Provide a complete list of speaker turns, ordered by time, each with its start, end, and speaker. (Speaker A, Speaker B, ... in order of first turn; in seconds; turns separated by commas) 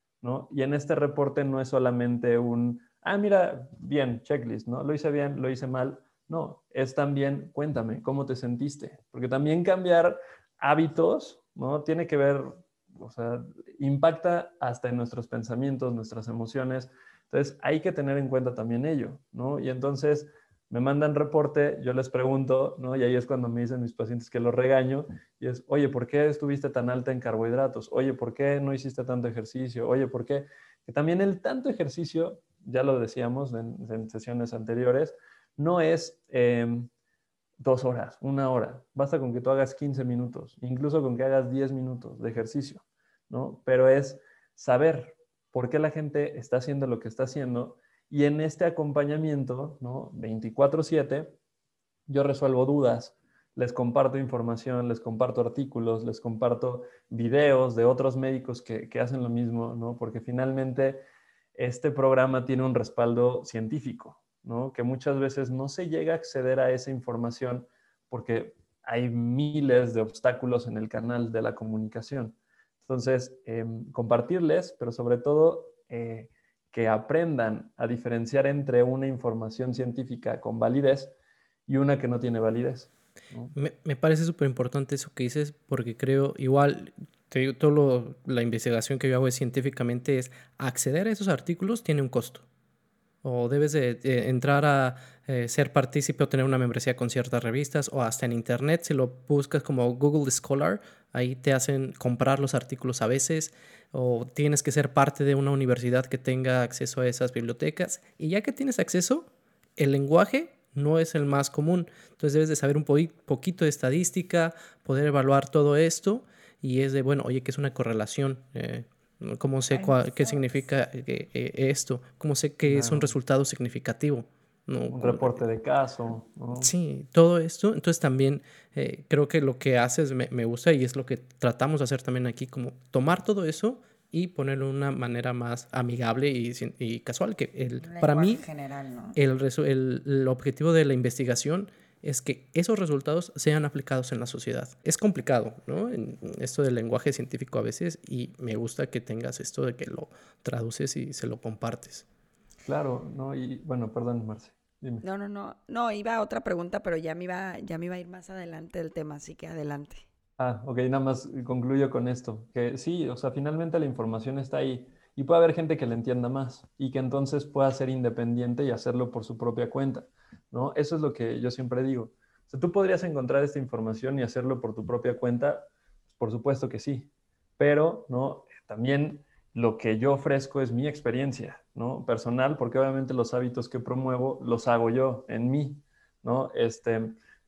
Speaker A: 0.2-36.9, Speaker A: 37.6-51.4, Speaker A: 52.1-61.0, Speaker A: 61.6-81.1, Speaker A: 81.7-83.5, Speaker B: 83.5-92.5, Speaker B: 93.2-125.4, Speaker C: 119.7-120.4, Speaker A: 122.6-123.2, Speaker A: 124.9-126.7, Speaker B: 126.6-138.4, Speaker C: 137.8-139.2, Speaker B: 139.2-152.1, Speaker A: 152.7-155.1, Speaker C: 155.0-160.1, Speaker A: 160.4-187.2